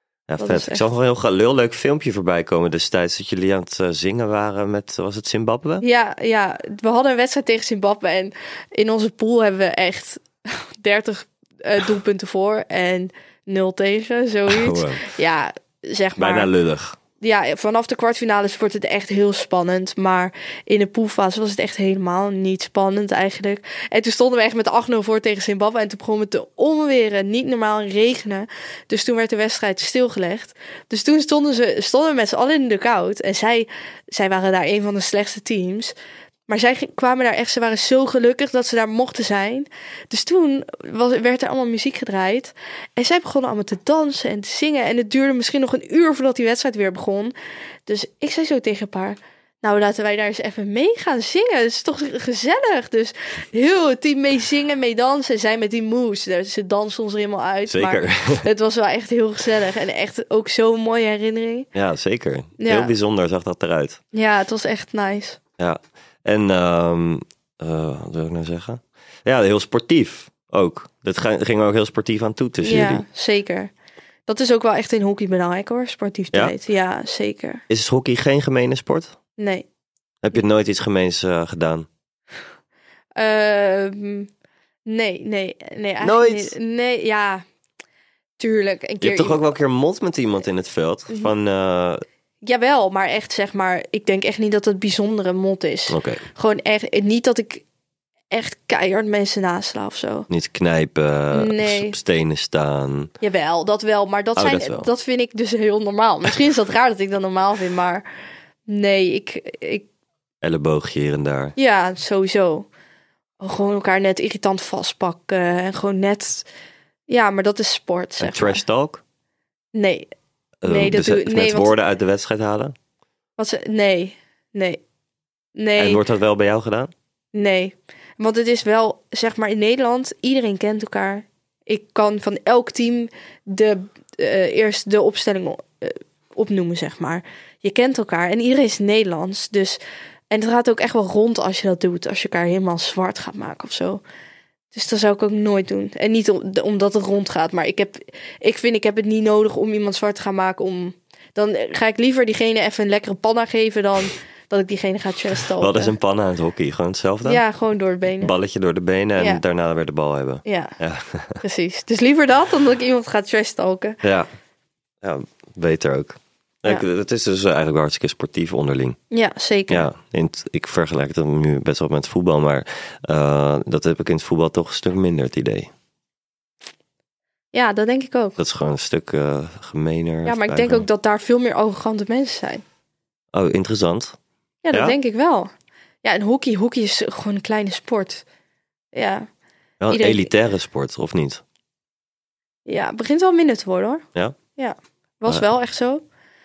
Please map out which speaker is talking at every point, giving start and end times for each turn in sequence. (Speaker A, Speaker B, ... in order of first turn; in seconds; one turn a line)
Speaker A: 0.3-5.8
Speaker B: 0.4-0.8
Speaker B: 5.8-16.5
Speaker A: 14.5-15.1
Speaker A: 16.2-17.0
Speaker B: 17.2-35.9
Speaker B: 36.5-47.3
Speaker B: 47.9-61.7
Speaker A: 57.7-58.5
Speaker A: 61.7-64.0
Speaker B: 62.6-62.9
Speaker B: 64.1-65.4
Speaker A: 65.6-73.0
Speaker B: 72.6-73.7
Speaker B: 74.3-77.6
Speaker A: 77.7-79.1
Speaker B: 79.4-79.7
Speaker A: 80.2-81.9
Speaker B: 83.2-84.3
Speaker B: 84.9-87.4
Speaker A: 86.0-86.5
Speaker B: 88.4-89.4
Speaker A: 89.0-92.0
Speaker B: 92.4-97.6
Speaker A: 95.9-96.3
Speaker B: 98.3-100.3
Speaker A: 100.3-103.1
Speaker B: 101.3-102.0
Speaker B: 103.2-108.0
Speaker A: 104.4-104.9
Speaker B: 108.7-109.9
Speaker A: 110.4-111.5
Speaker B: 111.6-112.7
Speaker B: 113.4-116.5
Speaker B: 117.1-118.6
Speaker A: 118.2-119.0
Speaker B: 119.7-120.1
Speaker A: 120.6-122.8
Speaker B: 120.7-121.8
Speaker B: 123.4-124.8
Speaker B: 125.6-126.0
Speaker A: 125.8-126.9
Speaker B: 127.3-139.8
Speaker B: 140.3-144.0
Speaker B: 144.7-156.0
Speaker A: 155.6-157.4
Speaker B: 157.2-158.3
Speaker A: 158.2-161.4
Speaker B: 159.2-159.4
Speaker B: 160.4-160.7
Speaker B: 161.4-164.0
Speaker A: 164.0-164.3
Speaker A: 165.0-169.0
Speaker B: 169.1-169.9
Speaker A: 169.7-175.7
Speaker B: 177.5-178.4
Speaker A: 178.4-180.9
Speaker B: 180.2-182.6
Speaker A: 183.3-184.2
Speaker B: 184.6-185.5
Speaker B: 186.0-188.2
Speaker B: 188.9-189.3
Speaker A: 189.8-191.4
Speaker B: 189.9-190.3
Speaker B: 192.7-194.1
Speaker B: 194.6-196.0